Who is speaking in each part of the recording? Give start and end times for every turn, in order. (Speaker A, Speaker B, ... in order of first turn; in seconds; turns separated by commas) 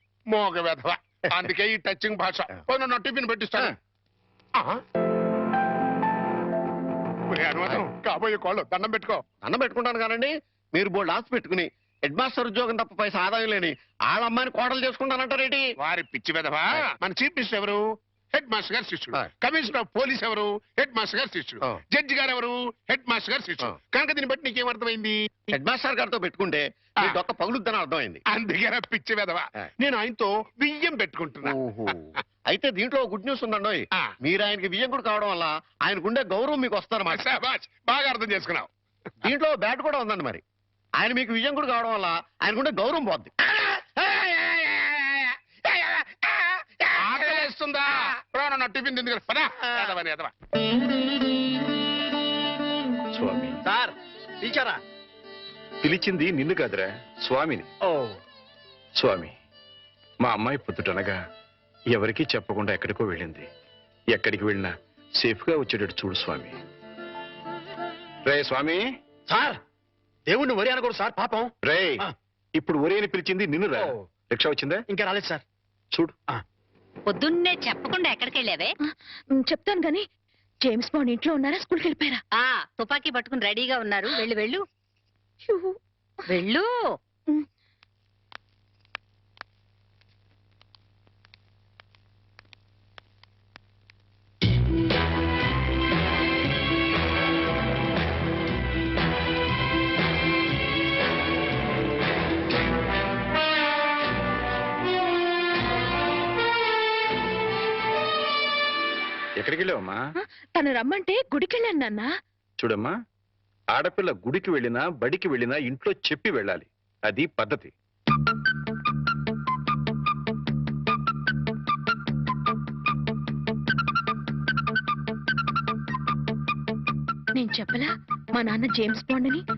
Speaker A: 0.3-3.8, Speaker A: 7.3-9.2, Speaker B: 9.4-15.7, Speaker A: 15.8-17.8, Speaker A: 18.3-25.1, Speaker B: 25.5-28.2, Speaker A: 28.3-31.6, Speaker B: 31.4-37.2, Speaker A: 37.1-38.7, Speaker B: 39.2-40.4, Speaker B: 41.0-43.6, Speaker A: 44.0-45.2, Speaker B: 45.7-46.2, Speaker A: 47.0-50.3, Speaker C: 53.1-53.6, Speaker D: 53.6-54.8, Speaker C: 55.8-57.7, Speaker D: 57.9-58.1, Speaker C: 59.0-59.3, Speaker C: 60.2-61.1, Speaker C: 61.9-63.5, Speaker C: 64.1-66.5, Speaker C: 68.2-68.8, Speaker D: 69.3-69.6, Speaker D: 70.3-72.1, Speaker C: 71.6-72.0, Speaker C: 72.6-74.8, Speaker D: 74.9-75.4, Speaker E: 77.1-78.7, Speaker F: 79.3-80.0, Speaker F: 80.6-82.2, Speaker E: 82.4-84.6, Speaker E: 86.3-86.7, Speaker C: 109.4-110.0, Speaker F: 110.5-112.1, Speaker C: 112.6-112.9, Speaker C: 113.7-117.7, Speaker F: 127.3-129.4